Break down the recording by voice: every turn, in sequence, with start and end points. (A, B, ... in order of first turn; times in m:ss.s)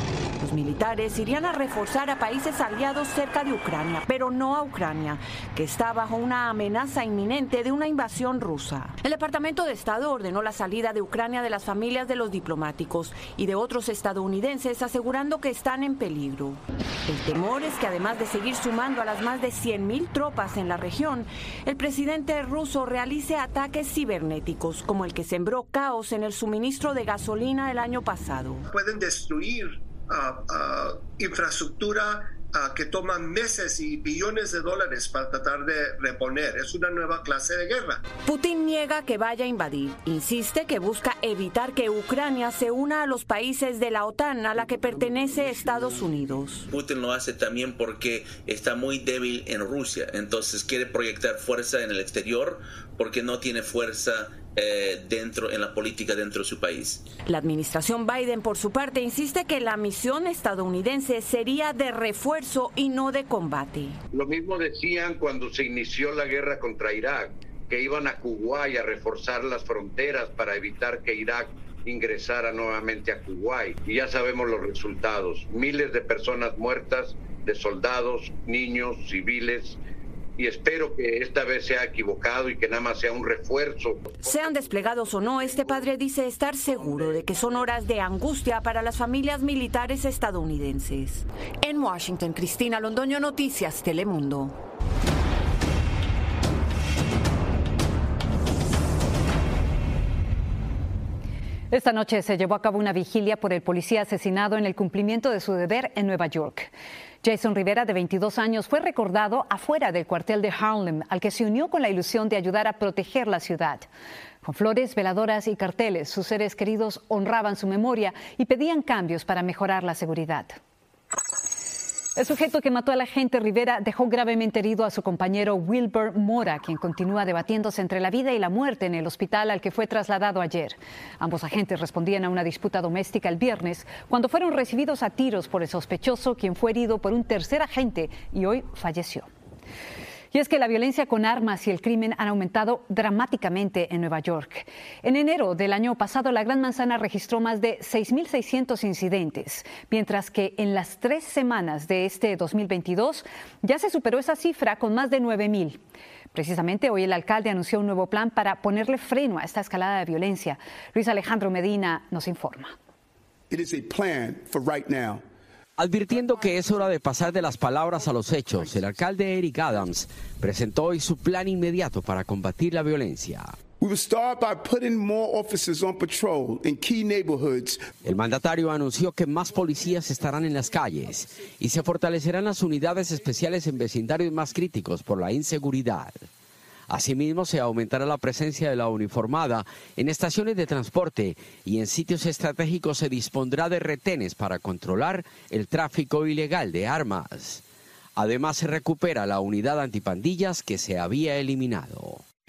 0:00.4-0:28.7 A
0:28.7-0:38.0 B
0:38.2-0:46.7 A
0:46.7-0:57.1 C
0:57.2-1:04.0 A
1:04.1-1:19.8 D
1:20.4-1:24.1 D
1:24.2-1:34.6 A
1:41.7-1:46.7 E
1:47.2-1:53.8 E
1:54.4-2:00.6 E
2:02.2-2:19.3 E
2:20.3-2:35.8 E
2:36.3-2:42.7 E
2:43.5-2:45.2 F
2:45.8-2:53.5 G
2:53.8-2:57.9 F
2:58.0-3:06.2 G
3:06.9-3:17.6 G
3:18.2-3:22.2 G